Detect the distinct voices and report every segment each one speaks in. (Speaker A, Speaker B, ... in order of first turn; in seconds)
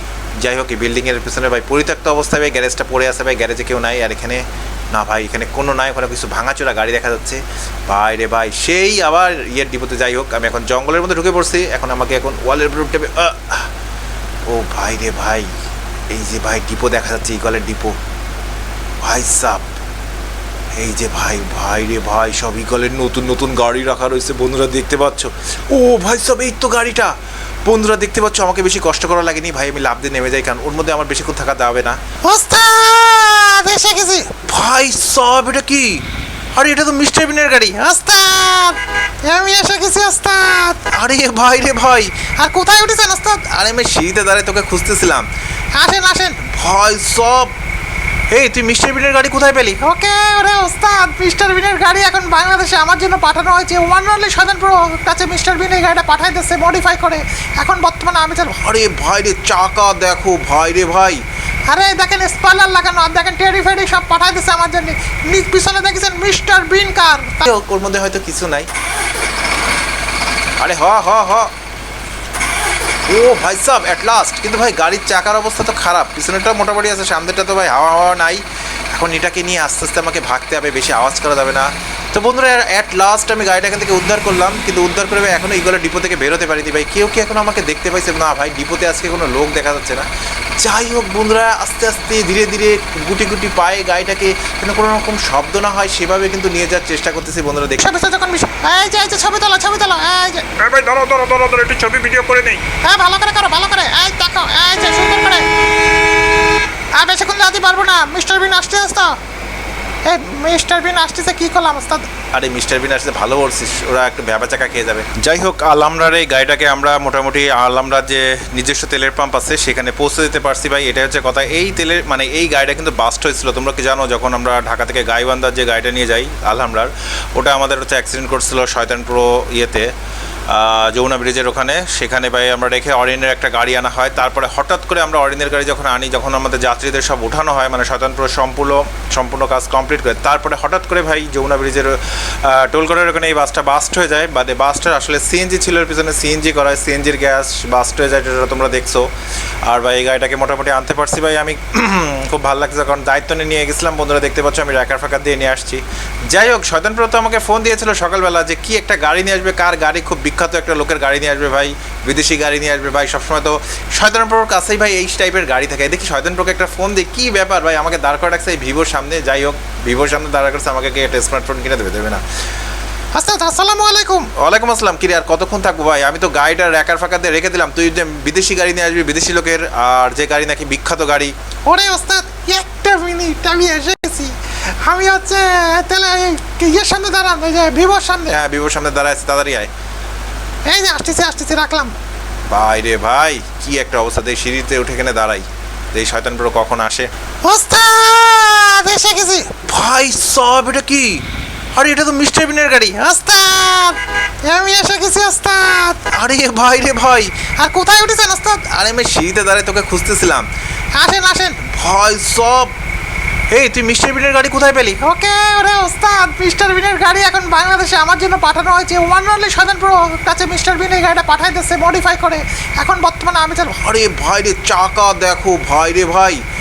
Speaker A: 0.4-13.7, 14.5-15.5, 16.1-18.0, 19.0-19.7, 20.8-32.0, 34.4-36.0, 36.5-38.0, 40.9-42.3, 43.4-45.3, 46.6-47.5, 48.3-49.8, 58.5-61.2, 67.4-68.7, 70.6-71.5, 73.1-90.1, 90.6-97.9, 112.3-129.9, 130.5-149.1, 149.7-172.2, 174.3-181.3, 188.3-189.7, 192.5-197.1, 199.6-201.2, 201.7-203.3, 206.1-207.5, 208.6-210.5, 211.8-212.7, 213.5-215.0, 223.8-226.4
Speaker B: 32.2-34.4, 38.0-40.9, 42.4-43.5, 45.7-46.6, 49.8-58.6, 61.7-67.4, 97.8-100.4, 102.7-105.4, 107.0-109.2, 110.0-112.1, 173.1-174.3, 181.7-184.3, 184.8-188.3, 190.7-191.9, 197.4-199.6, 203.3-203.8, 204.4-206.1, 207.6-208.6, 210.9-211.8, 215.0-223.8
Speaker C: 100.6-102.6